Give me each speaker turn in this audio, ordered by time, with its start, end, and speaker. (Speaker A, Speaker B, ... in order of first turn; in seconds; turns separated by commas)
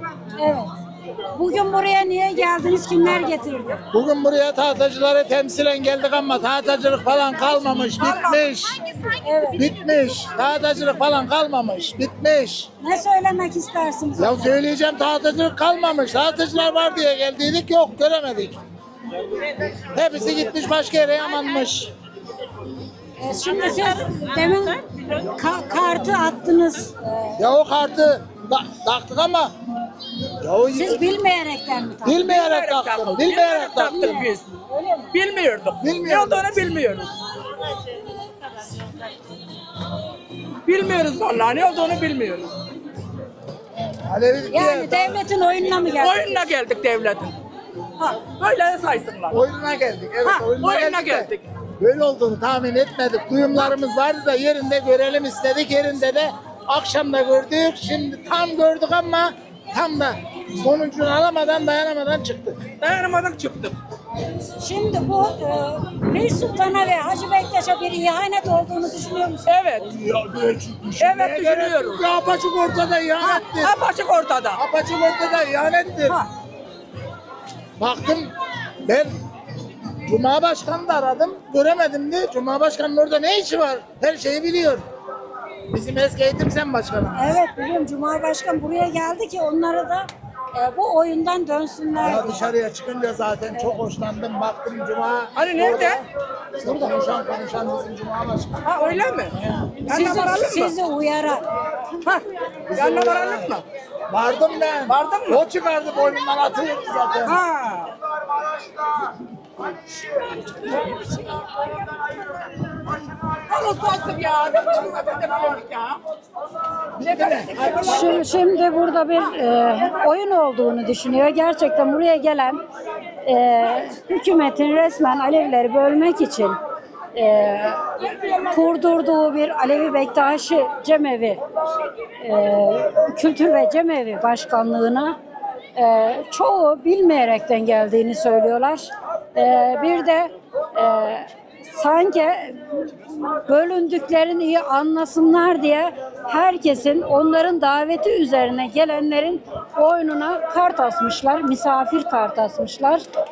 Speaker A: 0.4-0.7, Speaker A: 1.3-3.9, Speaker B: 3.9-8.8, Speaker C: 8.0-8.5, Speaker A: 9.2-9.7, Speaker B: 9.6-12.7, Speaker A: 12.8-14.6, Speaker B: 14.2-18.6, Speaker B: 19.8-21.9, Speaker A: 23.2-27.4, Speaker B: 27.4-29.5, Speaker B: 30.4-31.1, Speaker A: 30.7-32.3, Speaker B: 32.0-34.0, Speaker C: 32.2-34.5, Speaker A: 33.8-35.1, Speaker C: 35.1-37.1, Speaker B: 35.8-36.5, Speaker C: 40.6-42.5, Speaker B: 44.1-45.2, Speaker A: 44.5-46.4, Speaker C: 46.0-47.3, Speaker C: 48.0-49.4, Speaker B: 49.3-62.6, Speaker C: 50.2-51.5, Speaker C: 62.8-63.8, Speaker A: 64.6-69.5, Speaker C: 69.5-69.9, Speaker B: 69.8-73.8, Speaker C: 71.0-72.1, Speaker C: 73.2-74.6, Speaker B: 74.5-76.2, Speaker B: 77.8-78.3, Speaker B: 78.8-79.1, Speaker B: 80.0-84.8, Speaker B: 85.7-87.4, Speaker A: 87.1-92.5, Speaker B: 92.0-96.0, Speaker C: 95.3-96.0, Speaker B: 96.6-98.8, Speaker C: 98.6-100.8, Speaker B: 99.3-99.8, Speaker A: 99.8-101.5, Speaker C: 102.0-103.7, Speaker B: 102.7-103.5, Speaker B: 104.1-107.4, Speaker C: 104.9-105.4, Speaker C: 107.2-108.0, Speaker C: 113.5-116.0, Speaker B: 117.0-118.0, Speaker C: 117.0-117.8, Speaker A: 117.7-122.6, Speaker A: 123.2-126.6, Speaker A: 127.1-131.4, Speaker A: 132.2-135.2, Speaker A: 135.8-142.9, Speaker A: 143.5-153.0